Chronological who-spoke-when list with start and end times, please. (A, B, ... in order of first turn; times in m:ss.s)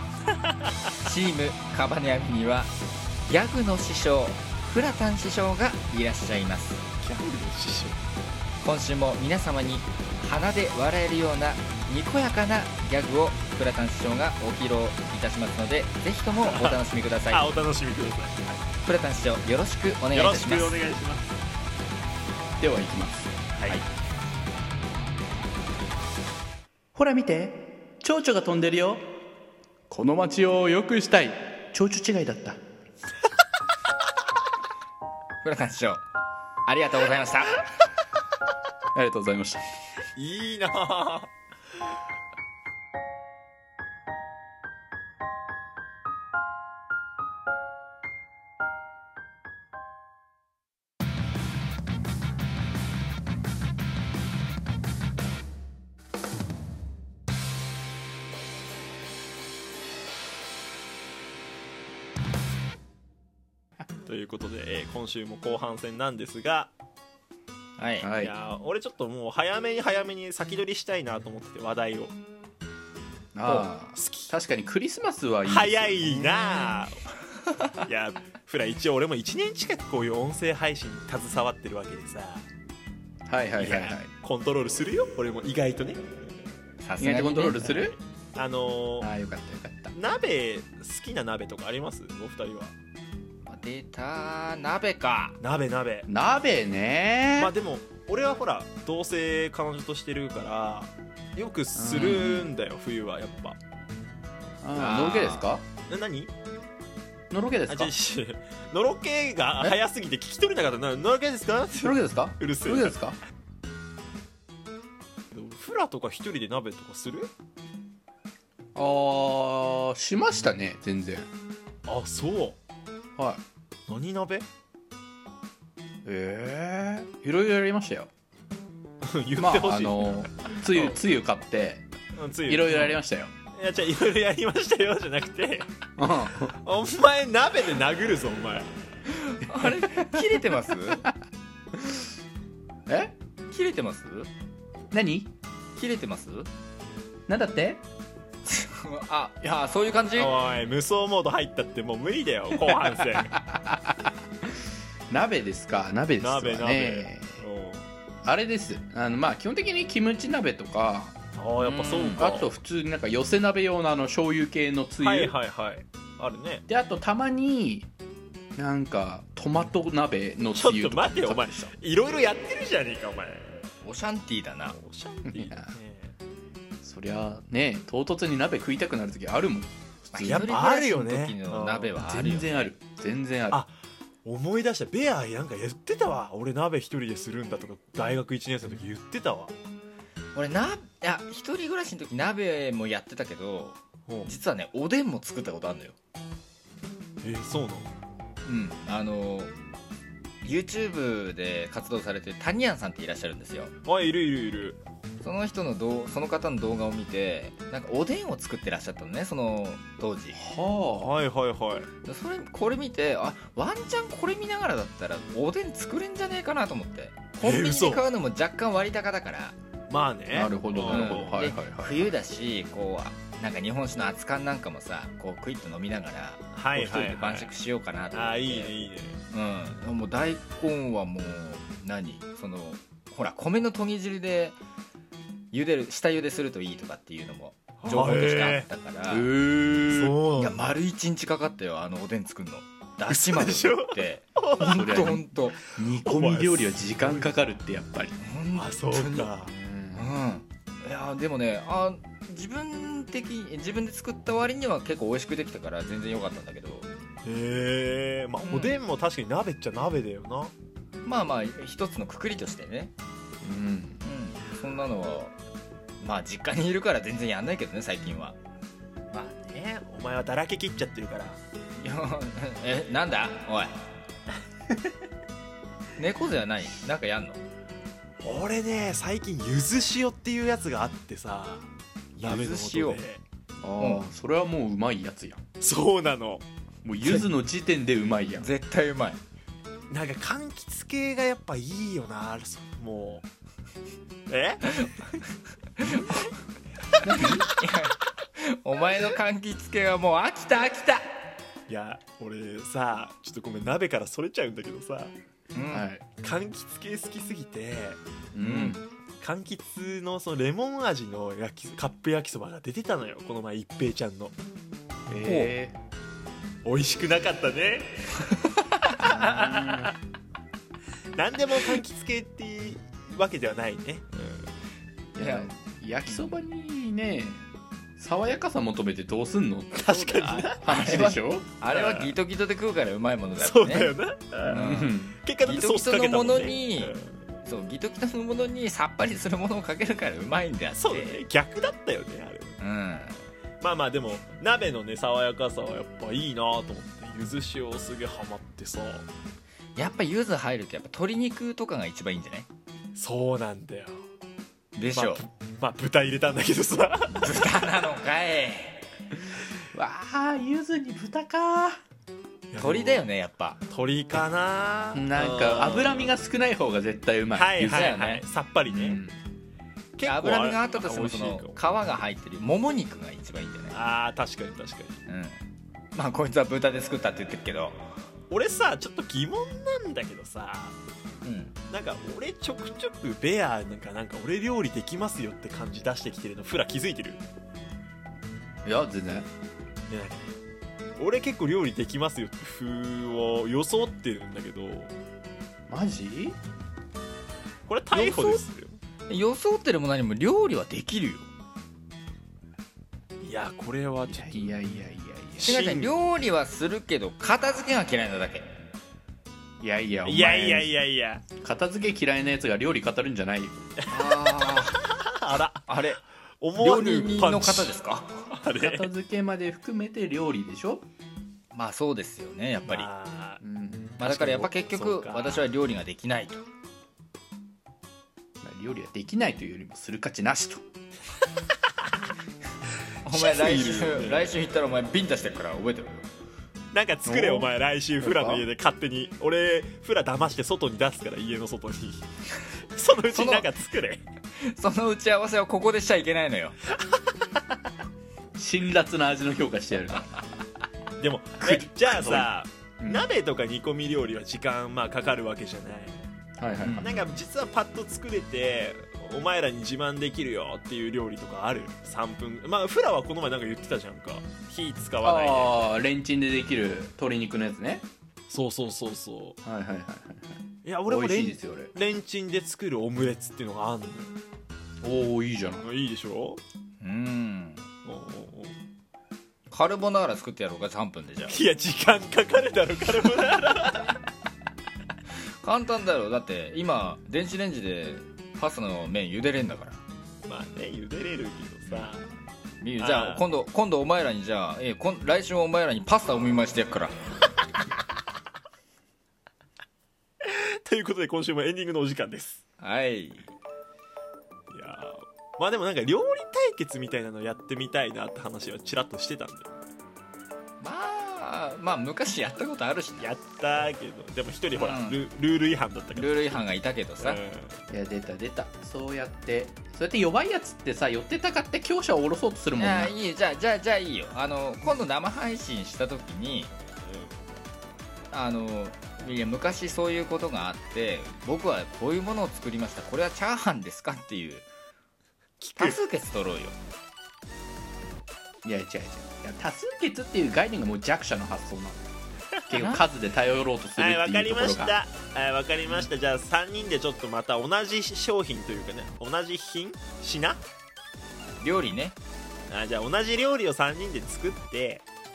0:01.0-0:02.7 A
0:03.2-0:06.8 A
0:07.0-0:08.0 B
0:08.6-0:17.5 A
0:16.4-0:16.8 B
0:17.3-0:18.5 B
0:18.8-0:20.8 A
0:20.1-0:21.3 B
0:22.6-0:23.3 C
0:23.6-0:23.8 B
0:26.9-0:29.1 C
0:29.9-0:32.6 C
0:35.4-0:36.0 A
0:36.6-0:37.8 A
0:38.9-0:39.6 C
0:40.1-0:41.3 B
1:04.0-1:06.7 B
1:07.8-1:08.1 A
1:08.0-1:08.3 C
1:08.1-1:12.1 B
1:13.3-1:16.7 C
1:13.4-1:13.9 A
1:13.9-1:14.3 B
1:15.4-1:17.0 B
1:17.8-1:22.4 B
1:23.3-1:24.1 C
1:23.6-1:26.1 B
1:26.8-1:28.0 A
1:27.0-1:28.0 C
1:28.4-1:29.1 B
1:29.0-1:29.9 C
1:29.9-1:32.7 B
1:33.5-1:35.4 A
1:35.4-1:36.1 B
1:36.1-1:37.5 C
1:37.4-1:43.6 B
1:41.7-1:42.4 C
1:41.9-1:42.4 A
1:44.6-1:45.6 C
1:44.7-1:45.5 A
1:45.9-1:46.3 B
1:47.3-1:47.9 C
1:47.7-1:53.0 B
1:51.7-1:53.2 C
1:55.3-1:57.3 B
1:58.7-2:01.3 C
2:01.8-2:02.6 B
2:03.2-2:03.4 C
2:03.9-2:04.4 B
2:06.0-2:08.1 C
2:09.0-2:11.0 B
2:09.4-2:11.8 C
2:12.2-2:13.0 B
2:12.4-2:13.3 C
2:13.6-2:15.7 B
2:16.0-2:16.5 C
2:16.4-2:18.7 B
2:19.1-2:21.1 A
2:19.6-2:21.1 C
2:21.7-2:22.1 C
2:22.9-2:23.1 C
2:23.5-2:24.3 A
2:24.9-2:25.3 C
2:25.8-2:26.5 A
2:27.3-2:27.8 C
2:28.4-2:30.3 A
2:30.2-2:33.4 B
2:33.5-2:34.1 C
2:35.1-2:37.4 C
2:36.2-2:37.9 B
2:38.2-2:41.2 C
2:41.4-2:42.5 B
2:41.6-2:42.4 A
2:42.1-2:45.3 C
2:45.0-2:46.6 B
2:46.7-2:47.9 C
2:48.6-2:51.7 C
2:50.5-2:53.7 B
2:53.8-2:54.8 A
2:54.7-2:56.1 B
2:55.2-2:55.7 C
2:56.8-3:00.6 C
3:00.1-3:02.7 A
3:00.2-3:01.9 B
3:02.0-3:03.6 C
3:04.2-3:09.5 B
3:10.3-3:16.0 A
3:14.1-3:14.3 B
3:17.2-3:17.9 B
3:18.4-3:19.5 A
3:20.4-3:23.7 A
3:23.8-3:24.8 B
3:25.2-3:30.4 A
3:30.3-3:31.1 C
3:31.0-3:31.9 B
3:32.0-3:39.6 A
3:37.4-3:38.0 B
3:39.9-3:41.4 B
3:40.3-3:42.2 C
3:40.8-3:54.6 A
3:46.5-3:47.5 B
3:48.1-3:49.2 B
3:55.5-3:59.3 A
3:57.8-3:58.7 B
3:59.0-4:00.2 C
3:59.8-4:00.7 B
4:00.4-4:05.6 A
4:03.1-4:05.0 B
4:04.8-4:08.2 C
4:05.8-4:07.3 B
4:08.2-4:09.3 A
4:08.5-4:09.5 B
4:09.4-4:10.1 C
4:09.9-4:16.9 A
4:17.2-4:20.5 B
4:18.4-4:18.8 A
4:21.0-4:22.9 A
4:23.4-4:24.0 C
4:24.0-4:25.3 A
4:26.0-4:28.4 A
4:29.1-4:31.4 B
4:31.8-4:33.8 A
4:36.0-4:37.4 A
4:38.2-4:43.2 B
4:42.2-4:43.0 A
4:43.6-4:45.4 C
4:43.8-4:44.0 A
4:45.6-4:46.4 B
4:46.8-4:48.5 C
4:47.0-4:47.3 A
4:48.4-4:49.2 A
4:49.9-4:53.2 B
4:54.3-4:54.8 B
4:55.8-4:56.3 A
4:57.0-5:01.1 A
4:57.0-4:57.4 C
5:01.7-5:05.1 B
5:05.5-5:05.9 A
5:05.7-5:06.0 C
5:06.2-5:08.0 B
5:08.3-5:08.8 C
5:08.4-5:08.8 A
5:09.2-5:14.3 B
5:15.1-5:15.8 C
5:15.2-5:15.5 A
5:16.6-5:20.0 B
5:19.0-5:19.9 C
5:21.1-5:24.5 B
5:25.1-5:29.9 C
5:25.2-5:25.5 A
5:26.1-5:26.4 A
5:29.7-5:31.1 B
5:29.9-5:33.9 A
5:30.5-5:31.5 C
5:31.7-5:32.1 B
5:33.4-5:37.2 B
5:34.4-5:41.2 A
5:34.5-5:35.2 C
5:40.8-5:42.6 B
5:42.6-5:43.2 A
5:43.6-5:49.1 B
5:49.8-5:52.5 A
5:52.9-5:54.0 B
5:54.7-5:55.2 A
5:54.9-5:57.5 B
5:57.1-5:58.8 A
5:59.7-6:01.8 C
6:02.5-6:03.0 B
6:02.6-6:03.6 A
6:03.7-6:06.1 B
6:04.9-6:08.0 C
6:07.3-6:09.0 B
6:07.6-6:08.2 A
6:08.7-6:09.2 C
6:10.0-6:11.6 B
6:10.0-6:13.8 A
6:13.7-6:15.0 B
6:15.1-6:15.4 A
6:15.9-6:17.8 A
6:18.3-6:20.8 B
6:21.2-6:21.5 A
6:21.7-6:27.2 B
6:28.6-6:29.3 C
6:29.9-6:30.3 B
6:31.0-6:34.9 B
6:35.7-6:36.4 C
6:37.7-6:38.8 B
6:37.9-6:38.4 A
6:39.1-6:41.3 A
6:43.2-6:44.6 B
6:44.1-6:45.6 C
6:45.4-6:46.0 B
6:45.4-6:48.5 A
6:49.6-6:50.7 C
6:50.0-6:51.2 B
6:51.4-6:53.5 C
6:53.8-6:55.6 B
6:53.9-6:54.8 A
6:55.6-6:56.0 A
6:56.4-6:57.7 B
6:56.6-6:58.2 A
6:58.3-6:58.9 B
6:58.4-7:00.8 C
7:01.5-7:02.9 A
7:02.6-7:03.4 B
7:03.4-7:04.5 C
7:04.0-7:06.4 A
7:04.6-7:05.5 B
7:08.4-7:10.6 C
7:13.0-7:16.0 A
7:13.1-7:14.4 B
7:16.7-7:22.0 B
7:17.0-7:18.4 C
7:22.7-7:24.0 B
7:23.1-7:23.5 A
7:24.4-7:26.5 A
7:28.4-7:30.1 C
7:31.0-7:36.0 B
7:31.4-7:32.3 C
7:32.8-7:33.1 C
7:36.4-7:37.1 C
7:36.6-7:36.9 A
7:36.8-7:45.7 B
7:45.0-7:47.8 C
7:48.3-7:49.4 B
7:49.4-7:51.7 C
7:50.6-7:54.1 B
7:54.8-7:55.7 C
7:55.6-7:56.4 B
7:56.8-7:57.6 A
7:57.8-7:58.5 B
7:59.5-8:01.4 A
8:01.3-8:04.0 B
8:05.2-8:09.8 A
8:10.2-8:12.0 B
8:12.6-8:17.0 A
8:12.8-8:13.2 B
8:20.2-8:22.4 B
8:22.6-8:23.3 A
8:24.5-8:29.6 B
8:30.6-8:33.1 A
8:33.0-8:37.6 B
8:34.5-8:35.0 A
8:35.9-8:37.2 A
8:37.7-8:43.0 C
8:42.6-8:46.5 A
8:46.8-8:47.2 B
8:48.1-8:54.5 A
8:55.4-8:55.8 B
8:55.6-8:56.6 A
8:58.4-9:01.8 C
9:02.5-9:04.8 C
9:02.5-9:02.9 A
9:03.8-9:10.4 B
9:11.4-9:12.0 A
9:12.5-9:14.8 B